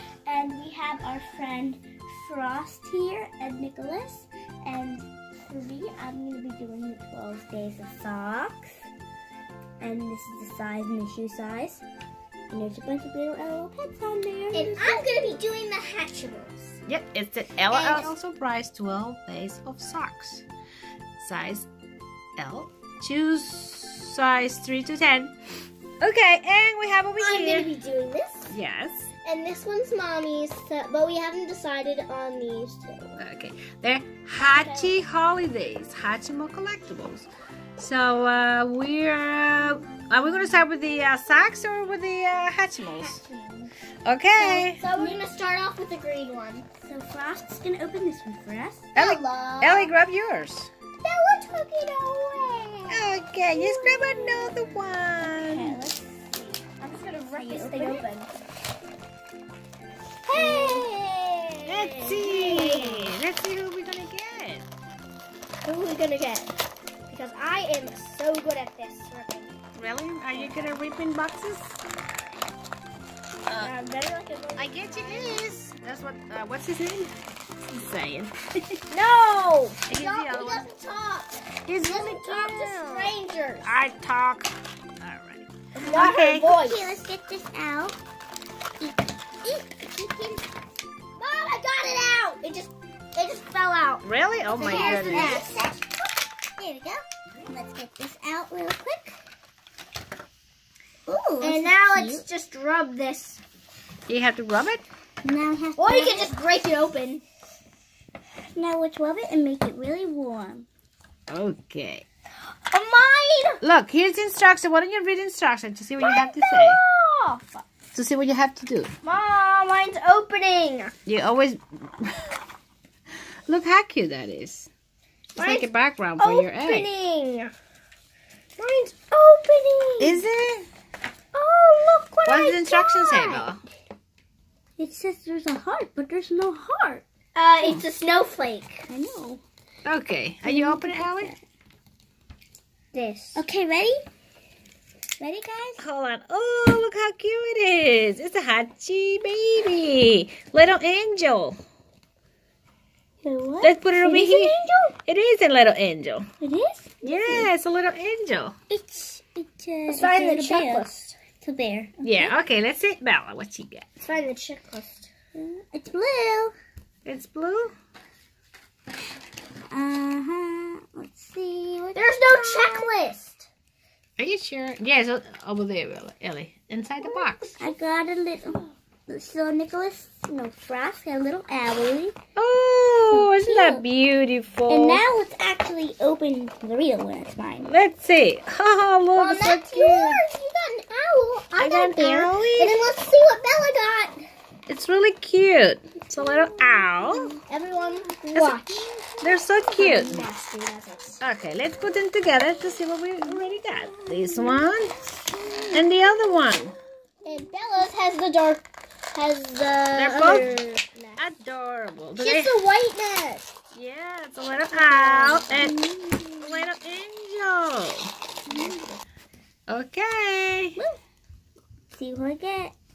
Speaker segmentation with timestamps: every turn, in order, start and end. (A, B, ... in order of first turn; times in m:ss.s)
0:00.3-0:08.9 A
0:09.8-0:11.8 A
0:12.5-0:15.4 A
0:14.5-0:16.8 B
0:16.9-0:20.4 C
0:17.7-0:18.1 B
0:21.2-0:21.7 C
0:22.4-0:25.3 C
0:26.0-0:27.7 C
0:27.2-0:28.5 B
0:28.5-0:29.1 C
0:29.2-0:33.2 B
0:33.2-0:43.2 C
0:34.6-0:35.0 B
0:43.3-0:43.7 A
0:44.0-0:44.8 C
0:44.4-0:46.7 B
0:44.9-0:45.2 A
0:46.8-0:48.9 A
0:49.0-0:49.9 B
0:49.0-0:50.7 C
0:51.0-0:54.4 B
0:52.9-0:55.8 C
0:55.4-0:56.4 A
0:56.8-0:58.3 B
0:57.3-0:58.0 A
1:00.3-1:03.2 B
1:00.4-1:00.9 A
1:01.7-1:04.7 C
1:05.6-1:06.5 B
1:07.1-1:09.6 B
1:09.8-1:11.8 C
1:10.3-1:10.7 B
1:13.5-1:13.7 C
1:13.6-1:15.5 B
1:14.6-1:17.1 C
1:17.7-1:18.8 C
1:18.9-1:23.7 B
1:19.9-1:20.7 C
1:21.7-1:26.5 C
1:25.8-1:27.0 B
1:26.5-1:28.0 A
1:28.8-1:30.4 A
1:31.2-1:35.6 B
1:34.0-1:35.4 C
1:34.6-1:36.0 A
1:36.6-1:39.2 A
1:41.1-1:42.2 A
1:41.4-1:43.4 B
1:44.1-1:44.8 C
1:45.2-1:46.4 A
1:45.8-1:47.2 B
1:48.5-1:50.7 A
1:51.3-1:52.0 C
1:52.7-1:53.6 B
1:53.6-1:56.8 C
1:56.0-1:57.6 B
1:57.9-1:59.0 C
1:59.0-2:00.9 B
2:01.1-2:02.2 C
2:03.5-2:04.7 C
2:05.4-2:06.9 C
2:05.4-2:07.5 B
2:08.6-2:10.2 B
2:10.0-2:10.7 C
2:11.3-2:13.6 B
2:12.3-2:13.6 C
2:14.8-2:17.0 A
2:17.4-2:18.9 B
2:18.9-2:19.4 A
2:19.8-2:21.3 C
2:20.4-2:21.4 A
2:22.9-2:23.4 B
2:23.4-2:24.0 A
2:25.2-2:25.8 A
2:25.8-2:31.6 C
2:33.2-2:34.9 A
2:33.6-2:36.3 C
2:36.4-2:37.5 A
2:37.0-2:38.6 C
2:38.7-2:40.8 A
2:39.9-2:41.2 B
2:41.4-2:42.3 A
2:42.0-2:43.9 C
2:44.0-2:45.1 B
2:45.4-2:46.5 A
2:47.0-2:47.7 C
2:49.7-2:52.9 A
2:52.0-2:53.5 B
2:54.2-2:57.5 C
2:57.0-2:57.7 B
2:57.6-3:02.2 A
3:02.4-3:05.0 C
3:03.1-3:03.8 A
3:04.7-3:07.8 A
3:07.6-3:10.2 C
3:09.2-3:14.2 B
3:11.6-3:12.8 C
3:14.7-3:17.4 C
3:17.5-3:18.9 B
3:18.4-3:20.2 C
3:19.7-3:21.2 B
3:21.2-3:24.9 C
3:25.4-3:25.8 A
3:25.7-3:26.8 C
3:27.2-3:31.2 B
3:30.0-3:30.5 C
3:31.2-3:32.6 C
3:32.2-3:33.5 B
3:33.7-3:35.8 C
3:34.7-3:36.7 A
3:35.0-3:35.7 B
3:36.4-3:38.1 C
3:38.5-3:39.0 B
3:38.5-3:38.8 A
3:39.7-3:40.8 C
3:41.9-3:42.8 A